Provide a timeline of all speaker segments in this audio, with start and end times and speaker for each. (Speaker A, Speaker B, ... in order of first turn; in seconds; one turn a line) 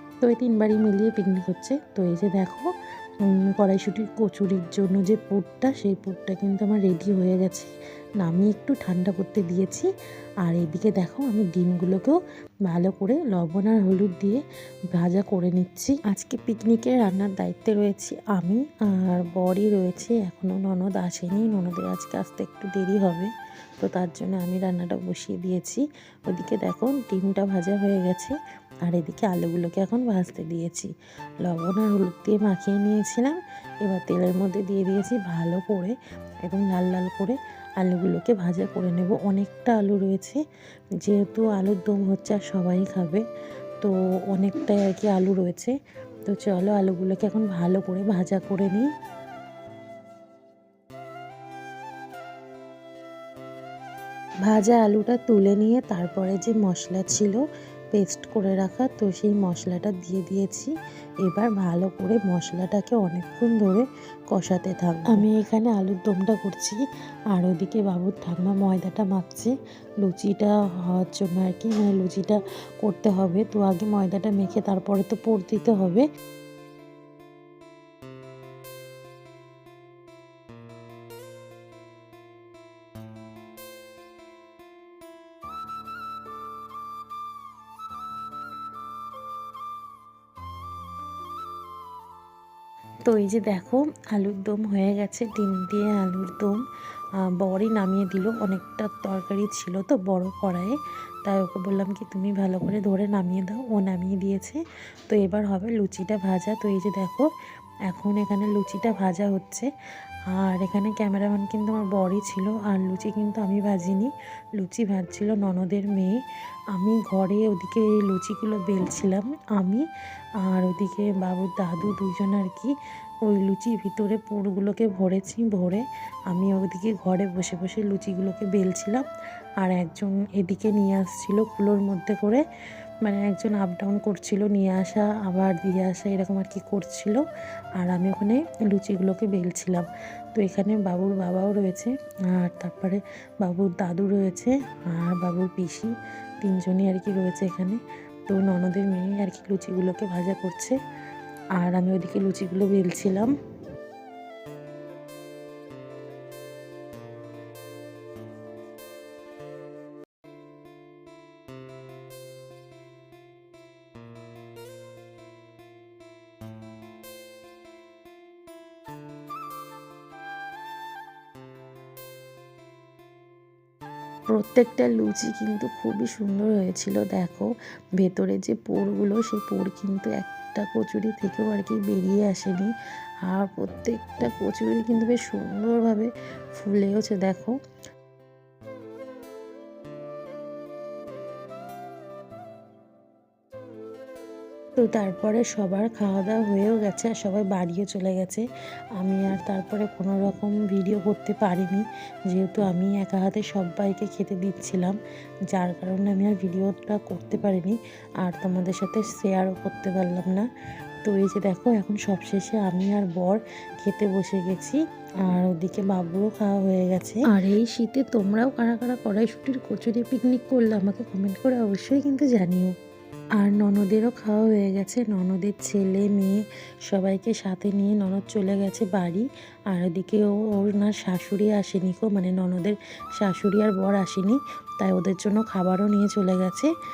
Speaker A: 0.2-2.7
Speaker A: 3.6-9.9
Speaker A: 10.4-12.2
Speaker A: 12.7-14.4
Speaker A: 14.9-30.9
Speaker A: 31.4-40.4
Speaker A: 41.0-43.2
Speaker A: 43.8-45.7
Speaker A: 46.2-48.9
Speaker A: 54.4-57.4
Speaker A: 57.9-60.7
Speaker A: 61.2-66.8
Speaker A: 67.3-76.0
Speaker A: 93.0-96.6
Speaker A: 97.3-107.2
Speaker A: 107.9-109.7
Speaker A: 110.3-116.2
Speaker A: 116.7-119.8
Speaker A: 120.4-122.7
Speaker A: 123.2-129.0
Speaker A: 129.6-132.4
Speaker A: 133.0-137.2
Speaker A: 137.8-150.8
Speaker A: 151.6-153.3
Speaker A: 174.3-182.7
Speaker A: 183.3-187.5
Speaker A: 194.8-198.4
Speaker A: 199.0-205.0
Speaker A: 205.5-210.4
Speaker A: 211.0-222.7
Speaker A: 223.4-226.3
Speaker A: 226.9-236.7